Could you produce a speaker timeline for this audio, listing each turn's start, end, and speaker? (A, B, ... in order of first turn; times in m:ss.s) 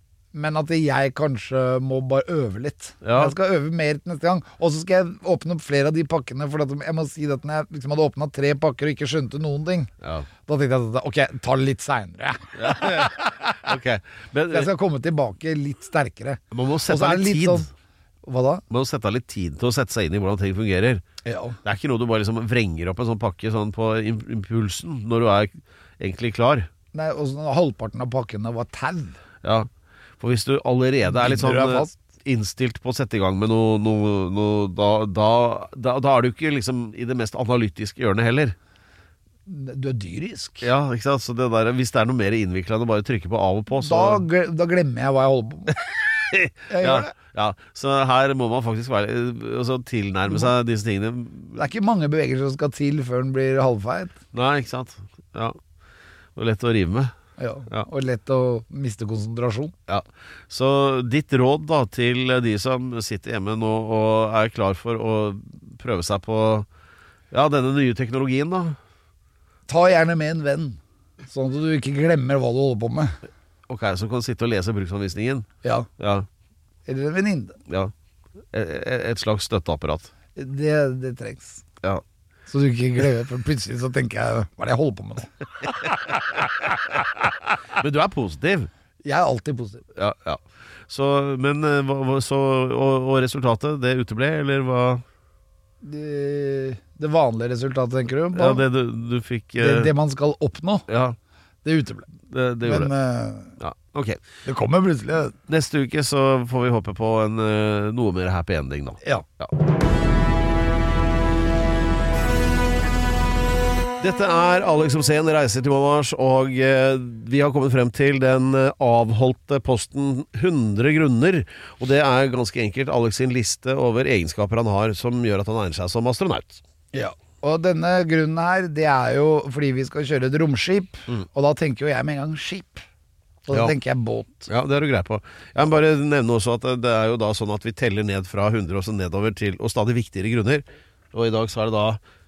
0:00.3-0:09.9 A
0:03.0-0:03.3 B
0:10.0-0:10.3 B
0:10.4-0:13.6 A
0:12.5-0:14.7 B
0:14.5-0:17.7 A
0:16.5-0:17.7 B
0:18.2-0:18.6 A
0:18.7-0:21.0 B
0:21.2-0:21.6 A
0:21.6-0:26.7 B
0:26.9-0:29.2 A
0:29.4-0:38.6 B
0:31.0-0:31.9 A
0:39.5-0:40.7 A
0:40.6-0:44.2 B
0:43.7-0:45.8 A
0:46.3-0:51.6 B
0:46.7-0:47.1 A
0:51.5-0:54.1 A
0:54.3-0:55.6 B
0:56.4-0:57.1 B
0:57.4-0:59.7 A
0:59.9-1:06.7 B
1:07.3-1:08.8 B
1:09.7-1:13.2 A
1:13.7-1:15.5 B
1:15.6-1:15.9 A
1:16.0-1:16.3 B
1:16.8-1:17.6 A
1:18.5-1:20.1 B
1:20.4-1:21.6 A
1:22.5-1:25.3 A
1:27.8-1:28.7 B
1:29.0-1:29.8 A
1:29.9-1:35.0 B
1:35.8-1:38.6 A
1:38.3-1:39.9 B
1:39.6-1:40.8 A
1:40.9-1:41.2 B
1:41.6-1:42.1 A
1:42.3-1:42.9 B
1:42.6-1:43.6 A
1:43.6-1:44.2 B
1:44.4-1:45.3 A
1:45.5-1:49.5 B
1:54.0-2:06.6 B
2:06.9-2:12.8 A
2:13.4-2:14.5 A
2:14.5-2:22.0 B